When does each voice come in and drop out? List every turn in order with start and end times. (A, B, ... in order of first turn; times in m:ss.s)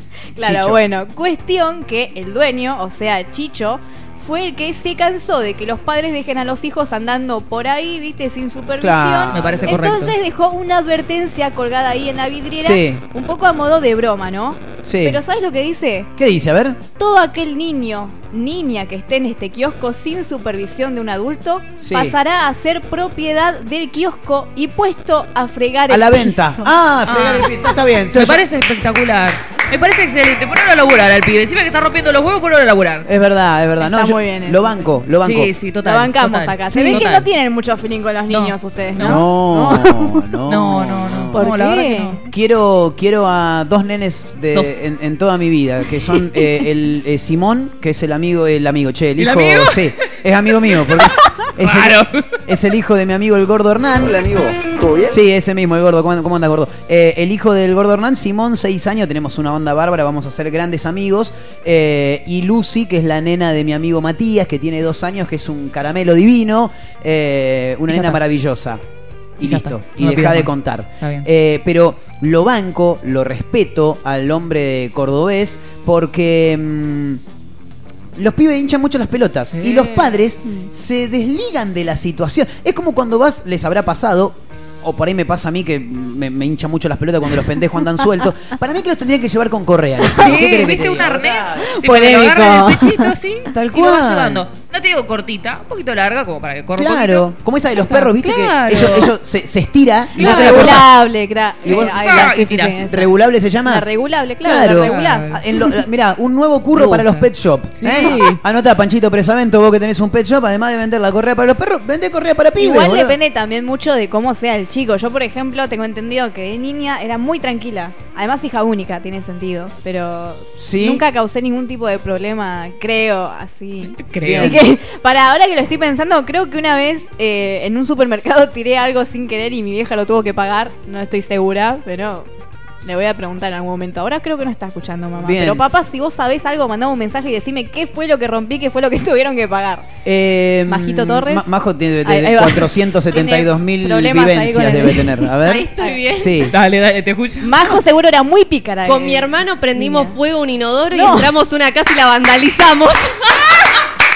0:00.4-0:16.1 A
0:00.4-0:00.8 B
0:08.8-0:09.8 B
0:09.3-0:10.1 C
0:12.6-0:13.0 B
0:14.8-0:15.2 B
0:16.2-0:16.8 B
0:17.0-0:26.7 A
0:21.8-0:22.2 B
0:25.9-0:28.4 B
0:27.1-0:27.5 C
0:28.1-0:33.1 C
0:33.0-0:35.5 B
0:33.8-0:34.9 A
0:35.2-0:37.3 C
0:35.8-0:40.1 A
0:36.7-0:37.0 B
0:38.3-0:39.2 C
0:39.0-0:41.4 B
0:40.5-0:42.2 C
0:41.4-0:42.2 A
0:42.3-1:08.8 B
0:44.5-0:44.8 C
0:49.2-0:49.9 C
0:50.9-0:52.2 C
1:07.9-1:08.2 C
1:09.4-1:17.2 B
1:09.4-1:11.3 C
1:18.2-1:31.7 B
1:19.5-1:20.2 C
1:30.2-1:39.1 C
1:31.7-1:33.1 A
1:33.5-1:34.4 B
1:36.8-1:40.9 B
1:40.2-1:40.8 C
1:40.2-1:43.1 A
1:41.6-1:43.9 B
1:41.7-1:42.8 C
1:43.6-1:45.3 A
1:44.4-1:53.2 B
1:44.8-1:45.4 C
1:46.7-1:48.4 C
1:52.6-2:12.3 A
2:00.6-2:01.0 B
2:03.9-2:04.6 C
2:04.2-2:04.6 B
2:12.8-2:19.9 A
2:15.2-2:15.6 B
2:20.0-2:26.5 B
2:20.7-2:21.5 A
2:22.0-2:26.3 A
2:25.4-2:26.3 D
2:26.5-2:27.8 C
2:27.4-2:30.2 A
2:28.9-2:33.4 D
2:30.9-2:31.3 A